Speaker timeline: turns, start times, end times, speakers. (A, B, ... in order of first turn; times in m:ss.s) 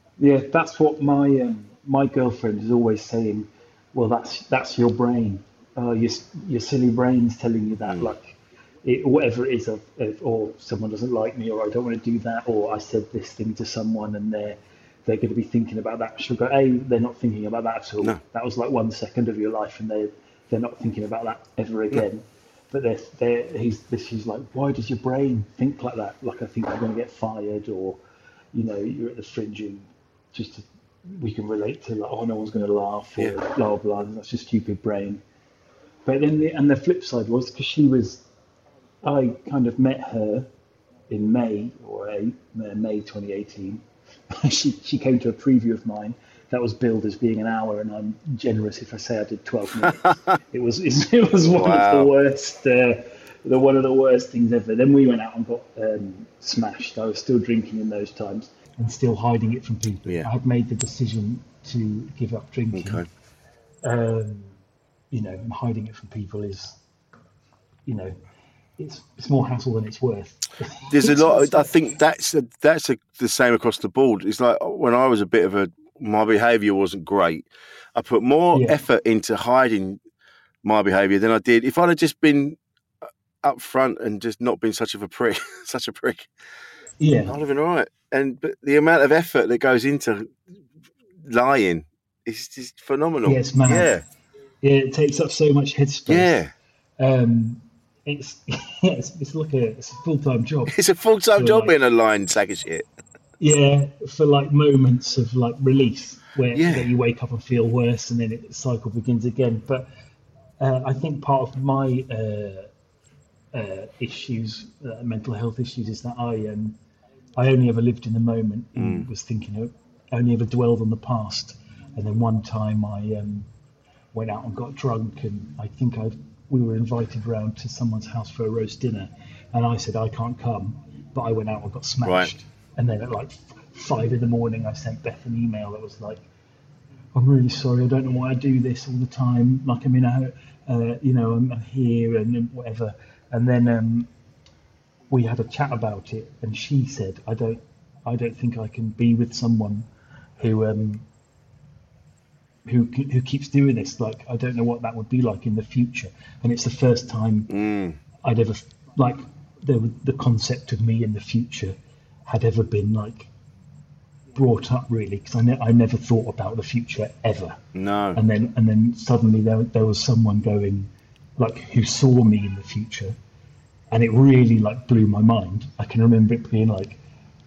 0:00.2-0:28.0 A
0:07.8-0:08.1 B
0:28.5-0:35.2 A
0:36.0-0:38.2 A
0:39.0-0:40.5 A
0:41.1-1:03.0 A
0:51.4-0:52.1 B
1:02.7-1:03.0 B
1:03.8-1:04.5 A
1:05.1-1:06.8 A
1:07.9-1:08.1 A
1:08.8-1:11.7 A
1:10.9-1:20.0 B
1:18.5-1:18.8 A
1:20.6-1:26.3 B
1:27.0-1:27.4 A
1:27.3-1:30.3 B
1:31.2-1:34.0 B
1:33.2-1:33.9 A
1:34.6-1:36.4 A
1:36.1-1:36.5 B
1:37.0-1:40.7 A
1:40.7-1:42.9 B
1:41.4-1:41.7 A
1:43.4-1:49.9 A
1:46.5-1:46.9 B
1:50.6-1:52.7 A
1:53.5-1:56.8 A
1:57.4-2:03.5 A
1:58.7-1:59.1 B
2:04.1-2:16.2 A
2:12.0-2:12.3 B
2:17.1-2:24.1 A
2:25.1-2:29.9 A
2:30.4-2:31.0 A
2:32.6-2:37.5 A
2:37.5-2:38.0 B
2:38.2-2:43.3 A
2:44.3-2:47.6 A
2:47.7-2:48.2 B
2:48.1-2:53.2 A
2:53.9-2:57.0 A